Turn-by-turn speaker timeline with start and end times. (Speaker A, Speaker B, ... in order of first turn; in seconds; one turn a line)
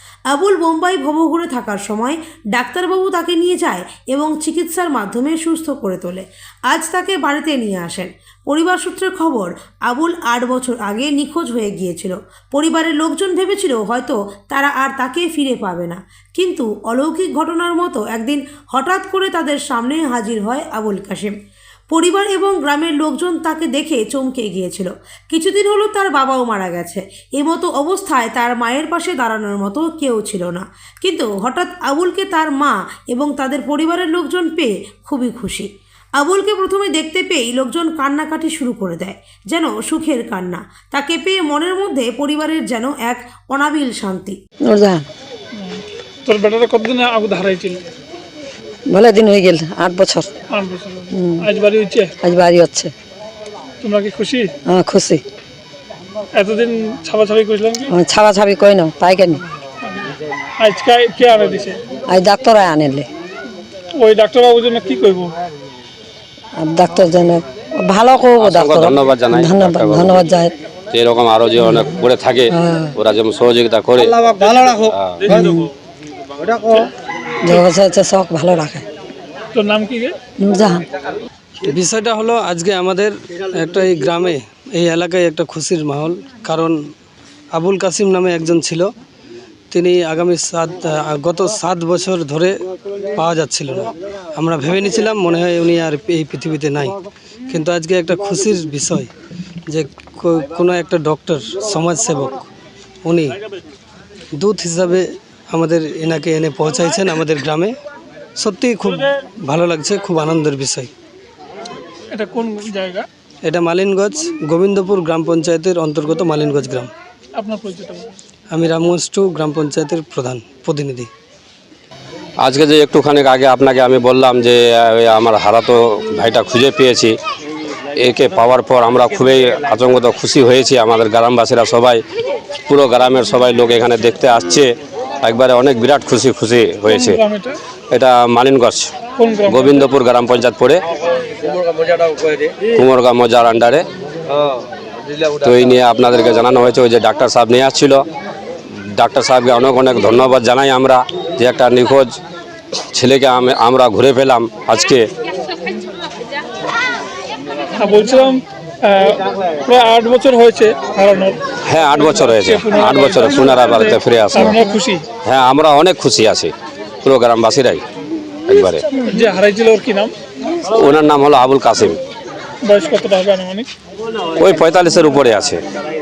Speaker A: 0.3-21.3
Speaker A: 21.9-44.4
Speaker B: 44.7-45.1
Speaker C: 45.6-47.8
Speaker B: 48.9-50.3
Speaker C: 50.5-52.1
Speaker B: 52.3-52.9
Speaker C: 53.8-54.5
Speaker B: 54.7-55.2
Speaker C: 56.4-57.9
Speaker B: 57.9-59.4
Speaker C: 60.6-61.8
Speaker B: 62.1-63.1
Speaker C: 64.0-65.3
Speaker B: 66.6-70.5
Speaker D: 68.4-70.3
Speaker D: 70.9-75.5
Speaker E: 77.5-77.9
Speaker B: 77.9-78.7
Speaker C: 79.5-80.1
Speaker B: 80.4-80.8
Speaker E: 81.6-86.8
Speaker E: 87.5-88.9
Speaker E: 89.7-97.0
Speaker E: 97.5-99.1
Speaker E: 99.7-102.5
Speaker E: 103.0-103.4
Speaker E: 104.4-107.8
Speaker E: 108.4-110.9
Speaker C: 112.1-113.1
Speaker E: 113.5-116.9
Speaker C: 117.4-118.1
Speaker E: 118.5-121.1
Speaker D: 122.4-127.2
Speaker D: 128.0-132.0
Speaker D: 132.7-137.2
Speaker C: 136.9-137.6
Speaker D: 137.9-138.9
Speaker C: 139.2-139.9
Speaker D: 139.5-140.8
Speaker D: 142.0-143.9
Speaker D: 145.2-148.0
Speaker D: 148.7-152.2
Speaker D: 152.9-155.1
Speaker C: 157.8-161.4
Speaker D: 161.7-164.6
Speaker C: 161.9-165.1
Speaker D: 165.2-166.5
Speaker D: 167.0-167.8
Speaker D: 168.5-168.8
Speaker C: 169.0-170.1
Speaker D: 170.7-172.0
Speaker C: 172.7-173.7
Speaker D: 174.4-175.6